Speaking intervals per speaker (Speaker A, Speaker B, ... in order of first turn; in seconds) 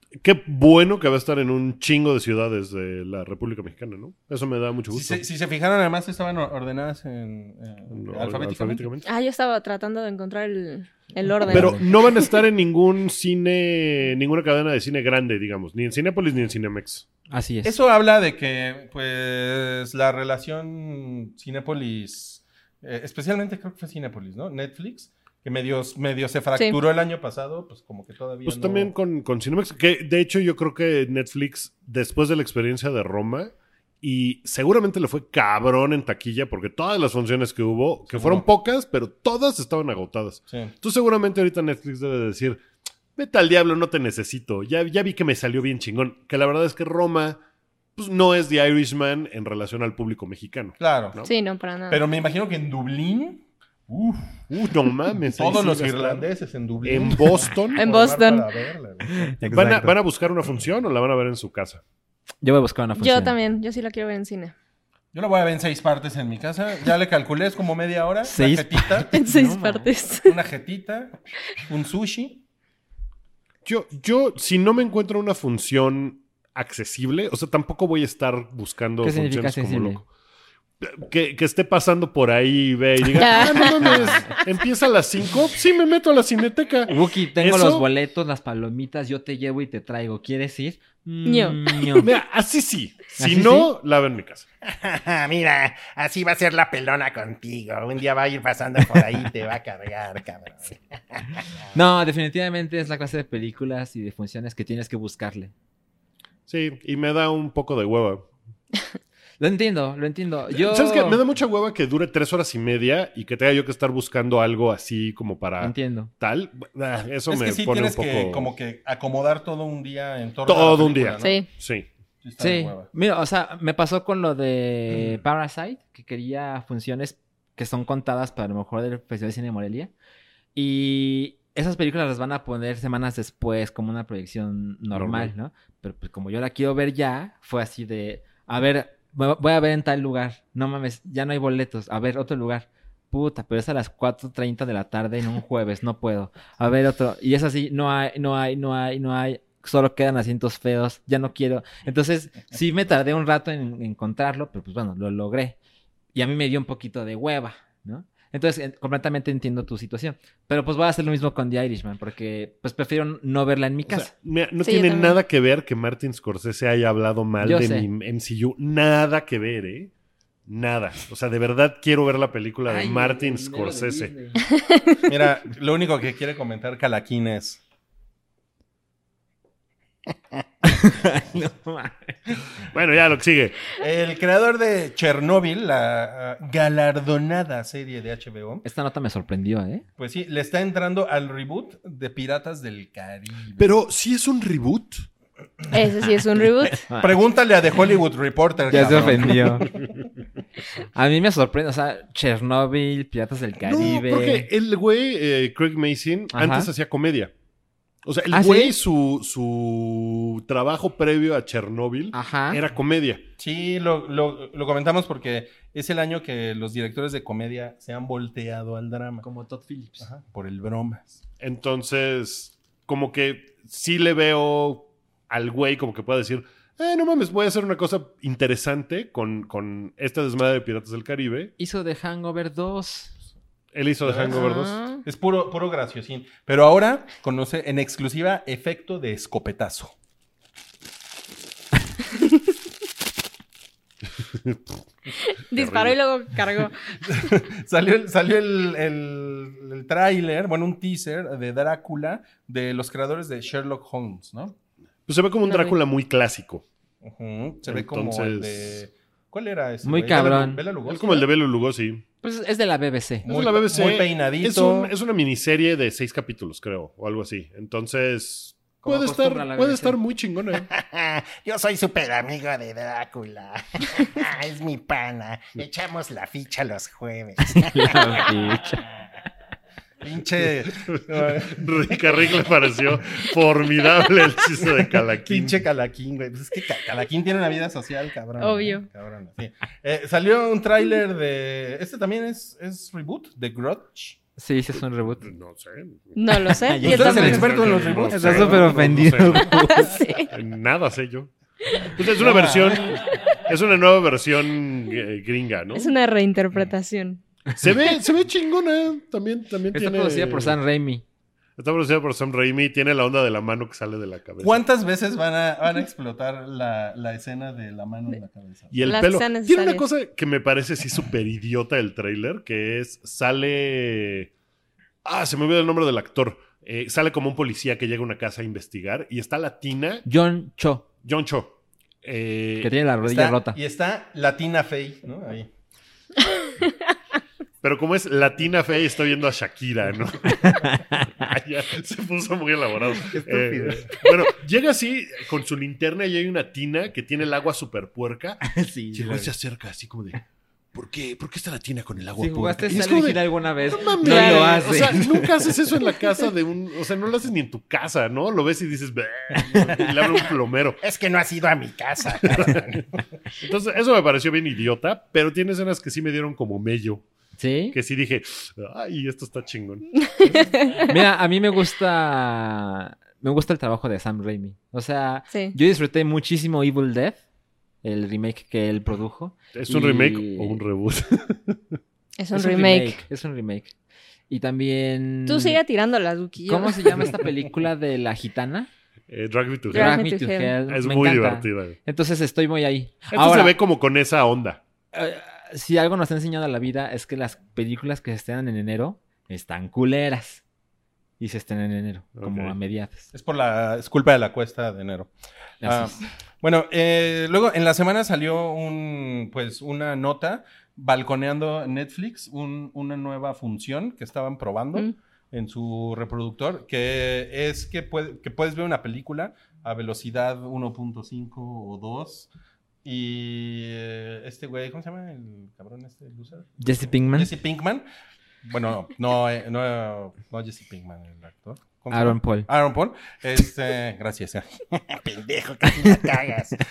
Speaker A: 0.2-5.2, 7.9-9.1, 11.5-17.1, 28.4-42.6, 43.2-47.4, 48.0-51.3, 54.5-56.3, 56.9-57.8, 59.4-61.8, 73.7-80.1, 80.8-87.9, 92.0-94.5, 106.5-108.3, 110.5-118.5, 120.5-121.9, 134.9-135.3, 163.8-169.9, 170.5-174.1, 182.7-183.6, 193.6-195.1, 203.6-207.3, 208.1-213.2, 221.4-231.5, 233.7-234.8, 244.2-244.8, 245.5-246.0, 255.1-256.6, 257.6-258.8, 260.9-262.0, 263.3-270.7, 280.9-285.6, 295.2-305.9, 307.6-310.6, 311.6-314.6, 318.7-324.3, 325.1-330.1, 331.0-332.7, 337.6-350.2, 350.7-360.8, 362.2-362.8, 363.4-367.1, 367.7-370.4, 379.5-381.8, 389.1-390.0, 390.7-391.8, 393.1-394.6, 402.2-402.6
Speaker B: 4.9-8.9, 17.6-28.9, 38.1-38.5, 50.8-51.2, 51.9-54.5, 55.3-59.4, 65.1-69.1, 70.2-72.4, 117.3-121.4, 122.2-122.9, 175.1-177.6, 183.8-188.7, 190.0-193.7, 197.0-199.8, 213.4-219.2, 220.0-221.2, 234.0-234.5, 235.0-239.9, 247.1-254.6, 257.0-261.3, 263.2-264.9, 280.0-282.3, 284.7-294.2, 296.8-299.2, 302.2-303.1, 314.4-318.8, 333.0-335.5, 403.1-405.1, 405.6-422.3, 422.8-427.9, 428.4-434.7
Speaker C: 9.1-12.3, 51.3-52.0, 57.8-58.5, 63.0-64.5, 69.1-70.4, 83.2-84.4, 91.3-91.9, 121.2-121.5, 164.6-165.2, 174.5-175.0, 195.7-196.8, 234.3-235.0, 245.2-246.8, 255.5-255.8, 288.4-288.9, 296.2-297.6, 299.7-300.3, 305.7-307.2, 318.9-319.9, 354.0-354.6, 370.1-370.9, 382.2-383.0, 385.3-387.2, 389.7-390.5
Speaker D: 11.5-11.8, 17.3-17.7, 59.1-60.0, 62.4-63.4, 68.2-69.9, 79.0-80.0, 86.9-92.1, 93.2-93.7, 101.7-105.5, 109.4-111.2, 115.6-116.1, 122.4-129.9, 130.6-155.6, 156.1-164.1, 167.4-167.9, 172.7-174.6, 180.7-182.2, 188.6-189.8, 198.7-199.7, 200.9-204.5, 206.3-206.7, 208.3-208.8, 212.1-212.6, 219.2-220.1, 231.6-233.2, 259.8-260.6, 262.2-263.3, 268.8-270.0, 277.4-278.8, 294.4-295.3, 296.7-299.9, 309.7-311.0, 330.1-330.9, 332.6-333.6, 340.3-341.2, 343.1-344.1, 348.4-349.3, 352.2-355.6, 367.4-367.8, 370.9-377.2, 377.8-380.6, 382.3-383.7, 384.3-385.6, 386.5-388.7, 389.7-393.5, 394.9-400.4, 401.2-403.1, 405.6-406.0, 426.6-427.3, 431.9-432.5
Speaker E: 94.7-101.4, 270.6-278.2, 360.8-362.8, 434.9-436.6